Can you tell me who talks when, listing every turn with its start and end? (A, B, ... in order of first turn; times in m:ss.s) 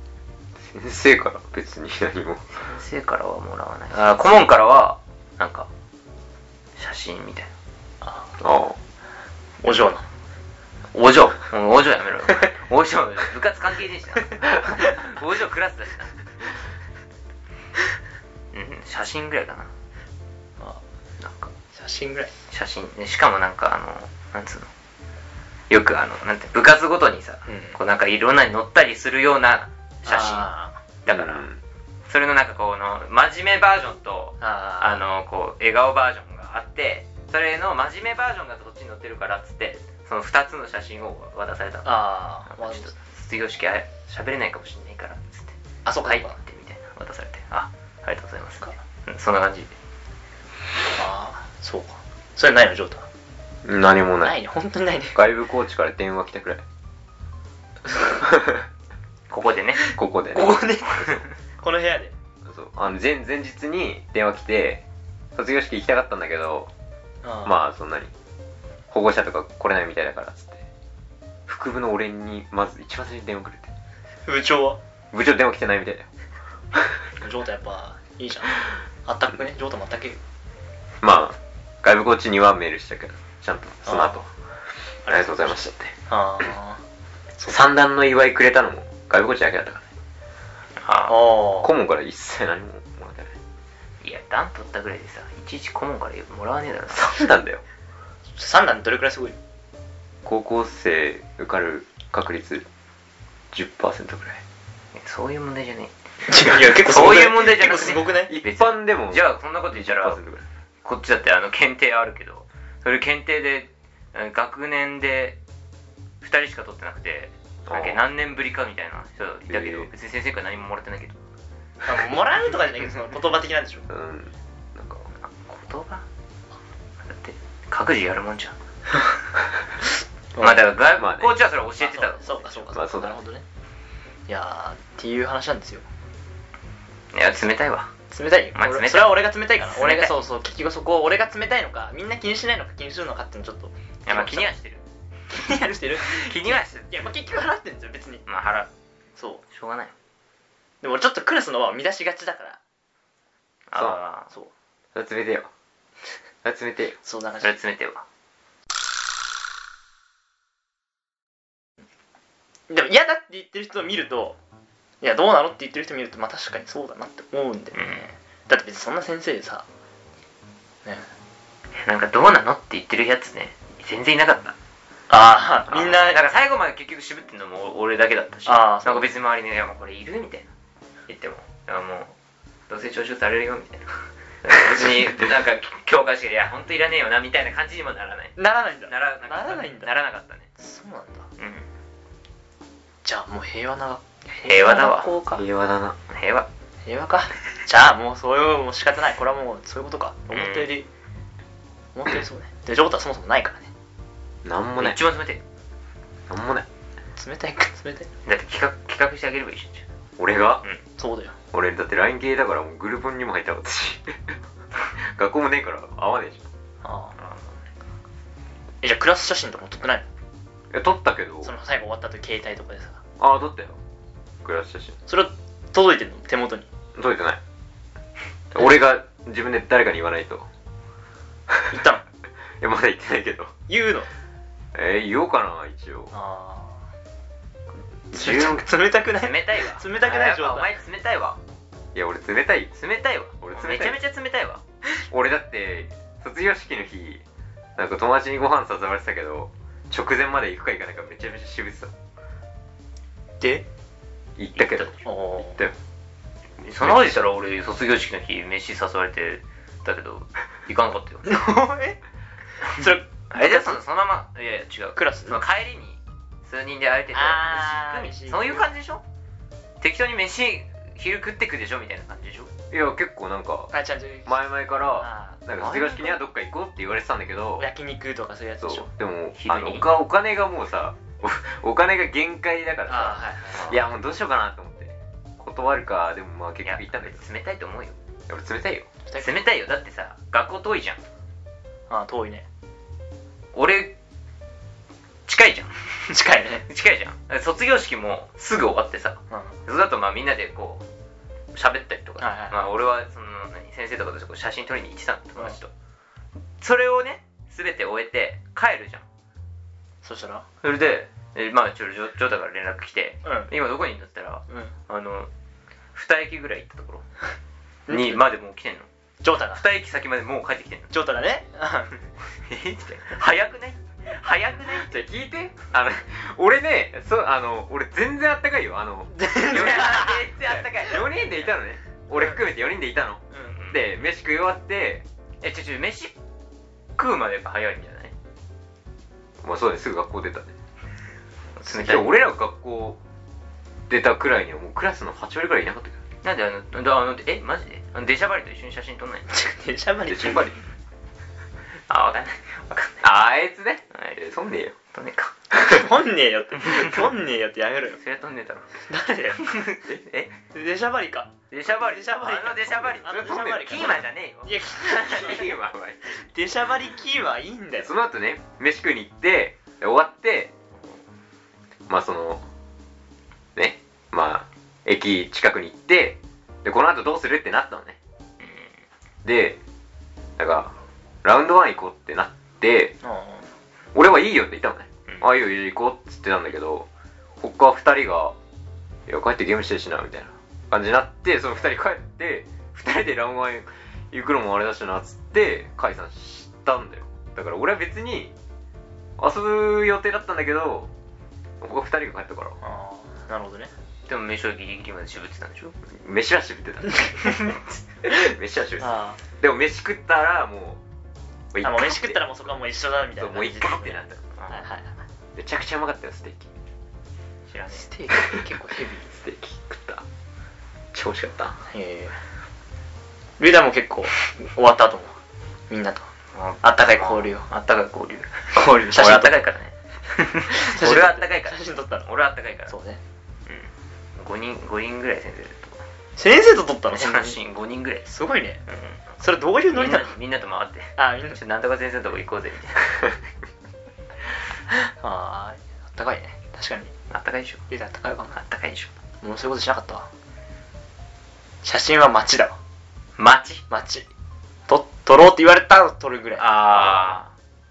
0:00.6-0:02.6 A
0:02.5-0:05.7 B
0:06.8-0:07.5 B
0:08.0-0:08.3 C
0:08.4-0:08.8 A
0:09.6-0:10.1 C
0:10.9-0:16.2 B
0:18.5-0:19.7 B
0:21.2-0:21.5 B
0:21.7-0:22.3 C
0:22.5-0:24.7 B
0:25.7-0:30.5 B
0:27.5-0:27.8 C
0:30.1-0:30.8 C
0:31.0-0:31.5 B
0:31.1-0:31.6 A
0:32.1-0:49.7 B
0:34.4-0:35.0 C
0:41.8-0:42.9 C
0:45.8-0:46.4 C
0:50.9-0:53.1 C
0:53.6-0:54.4 A
0:54.2-0:55.2 C
0:55.1-0:56.6 A
0:58.2-0:58.6 A
0:59.3-0:59.9 B
0:59.8-1:02.1 C
1:00.0-1:01.2 A
1:02.4-1:04.8 A
1:05.4-1:06.7 A
1:07.2-1:07.6 C
1:07.4-1:08.1 A
1:08.9-1:10.6 A
1:11.5-1:13.7 A
1:14.3-1:14.8 C
1:15.1-1:16.1 A
1:17.2-1:20.2 C
1:21.0-1:24.3 A
1:23.8-1:24.2 C
1:25.1-1:25.9 A
1:25.1-1:26.8 C
1:27.4-1:27.6 C
1:27.5-1:29.9 A
1:30.8-1:31.3 B
1:31.1-1:31.7 C
1:31.6-1:33.4 A
1:34.0-1:37.2 B
1:36.9-1:37.6 A
1:38.4-1:39.4 C
1:40.2-1:42.7 A
1:43.5-1:44.4 A
1:44.9-1:45.9 B
1:46.3-1:48.3 C
1:46.4-1:50.2 B
1:48.3-1:50.4 A
1:50.8-1:55.4 B
1:56.2-2:01.2 B
1:57.7-1:58.0 A
1:59.5-1:59.9 A
2:01.8-2:03.9 C
2:03.9-2:05.1 A
2:05.2-2:06.0 B
2:07.0-2:08.6 B
2:10.4-2:10.7 C
2:10.4-2:12.7 B
2:11.0-2:11.3 A
2:11.8-2:13.4 C
2:12.7-2:13.1 A
2:14.3-2:15.8 C
2:17.1-2:17.9 B
2:18.1-2:24.5 C
2:18.6-2:20.2 B
2:24.1-2:24.8 B
2:25.3-2:28.2 C
2:26.0-2:27.1 B
2:28.3-2:28.7 B
2:29.5-2:29.9 B
2:30.8-2:32.6 C
2:33.7-2:34.3 B
2:34.9-2:35.5 A
2:36.4-2:37.0 A
2:37.0-2:37.6 C
2:37.4-2:38.0 B
2:42.7-2:44.4 C
2:45.0-2:49.7 C
2:47.7-2:48.1 B
2:51.8-2:54.6 B
2:55.1-2:56.2 C
2:55.7-3:00.5 B
2:58.5-2:59.1 C
3:01.1-3:02.2 B
3:02.7-3:10.5 B
3:08.4-3:09.9 C
3:10.6-3:11.3 C
3:11.4-3:11.7 B
3:13.0-3:15.4 C
3:14.4-3:15.1 B
3:15.4-3:16.0 A
3:16.1-3:16.5 B
3:16.8-3:20.9 C
3:20.3-3:20.7 B
3:21.9-3:23.7 C
3:24.4-3:25.0 A
3:24.8-3:25.4 B
3:26.3-3:26.7 A
3:27.2-3:28.1 C
3:28.2-3:29.8 B
3:30.2-3:30.6 A
3:31.0-3:31.4 C
3:31.5-3:34.4 A
3:35.0-3:36.5 A
3:36.8-3:37.2 C
3:37.2-3:37.7 B
3:38.8-3:40.1 C
3:40.7-3:41.5 A
3:41.4-3:43.0 C
3:43.2-3:43.8 A
3:44.4-3:45.0 A
3:45.1-3:46.7 C
3:47.0-3:47.4 A
3:48.5-3:50.5 A
3:51.5-3:51.7 A
3:51.7-3:52.0 C
3:52.6-3:53.5 A
3:53.7-3:54.1 C
3:54.7-3:56.1 A
3:56.1-3:56.9 C
3:58.1-3:58.7 A
3:58.1-4:00.8 C
3:59.1-4:01.4 B
4:01.9-4:02.8 A
4:02.8-4:04.6 B
4:03.4-4:04.0 A
4:05.1-4:07.2 A
4:07.8-4:11.9 A
4:13.4-4:13.7 C
4:14.4-4:15.8 A
4:14.6-4:14.9 B
4:15.0-4:15.7 C
4:16.6-4:21.5 B
4:21.3-4:22.0 C
4:22.6-4:23.8 C
4:23.3-4:29.0 B
4:25.0-4:25.4 C
4:27.1-4:28.7 C
4:29.8-4:32.5 B
4:32.7-4:33.7 A
4:33.7-4:34.4 C
4:34.3-4:37.6 A
4:35.0-4:36.2 C
4:37.6-4:38.9 C
4:38.6-4:47.2 A
4:39.4-4:39.9 B
4:42.9-4:43.8 C
4:46.6-4:48.0 B
4:48.3-4:48.9 A
4:49.1-4:49.4 C
4:49.2-4:51.0 B
4:51.9-4:52.5 C
4:53.5-4:54.0 B
4:55.3-4:56.2 B
4:56.1-4:56.7 C
4:56.7-5:00.8 B
4:59.3-4:59.6 C
5:01.5-5:05.7 B
5:02.2-5:02.6 C
5:06.6-5:09.0 B
5:10.0-5:10.5 C
5:10.6-5:15.3 B
5:13.2-5:13.5 C
5:14.5-5:14.7 C
5:15.9-5:17.0 B
5:17.9-5:18.2 C
5:17.9-5:18.9 B
5:19.2-5:19.6 C
5:19.6-5:20.9 B
5:20.9-5:22.0 C
5:22.4-5:25.0 B
5:24.8-5:29.8 A
5:29.1-5:30.2 C
5:29.5-5:31.5 B
5:30.4-5:35.0 A
5:33.5-5:33.9 B
5:35.4-5:36.1 B
5:37.0-5:38.1 B
5:39.4-5:40.5 A
5:41.6-5:42.2 B
5:41.7-5:43.0 A
5:43.9-5:46.0 A
5:46.2-5:49.3 B
5:49.3-5:50.5 C
5:50.1-5:50.6 A
5:51.9-5:54.2 B
5:53.0-5:54.8 A
5:54.9-5:55.8 B
5:55.5-5:58.0 C
5:56.6-5:57.1 B
5:58.0-5:58.8 B
5:58.8-5:59.5 C
5:59.4-6:00.4 B
6:00.5-6:05.5 C
6:01.5-6:05.4 B
6:02.8-6:04.1 A
6:04.9-6:06.0 A
6:06.1-6:07.9 C
6:07.8-6:10.5 A
6:11.9-6:12.5 A
6:13.6-6:18.0 A
6:18.4-6:18.8 B
6:19.2-6:19.6 A
6:20.4-6:23.0 A
6:23.0-6:23.5 C
6:23.9-6:26.9 A
6:25.1-6:25.3 B
6:27.4-6:28.4 A
6:29.1-6:38.3 A
6:39.2-6:40.9 A
6:41.6-6:42.6 A
6:42.6-6:43.7 C
6:44.1-6:45.8 B
6:45.9-6:50.8 A
6:47.0-6:47.3 C
6:48.8-6:49.2 C
6:51.5-6:52.2 A
6:51.6-6:55.0 C
6:53.2-6:54.2 A
6:54.4-6:54.6 B
6:55.4-6:56.5 A
6:57.5-6:57.9 B
6:57.7-6:59.1 C
6:58.2-6:58.5 A
6:59.1-7:00.0 A
7:00.9-7:01.6 A
7:01.7-7:02.2 C
7:03.4-7:05.2 C
7:05.7-7:06.1 C
7:06.3-7:12.7 B
7:06.6-7:07.5 C
7:08.5-7:09.4 C
7:10.5-7:12.1 C
7:12.7-7:13.0 C
7:13.5-7:15.8 B
7:16.2-7:17.4 C
7:16.9-7:18.1 B
7:18.1-7:18.6 C
7:18.7-7:19.1 B
7:19.2-7:20.2 C
7:19.7-7:23.1 B
7:21.0-7:21.4 C
7:24.9-7:26.9 C
7:27.1-7:27.6 B
7:27.7-7:28.4 C
7:28.4-7:28.9 B
7:29.2-7:30.1 C
7:31.6-7:32.6 C
7:33.2-7:33.6 B
7:33.7-7:34.1 C
7:34.7-7:37.2 C
7:36.4-7:37.3 B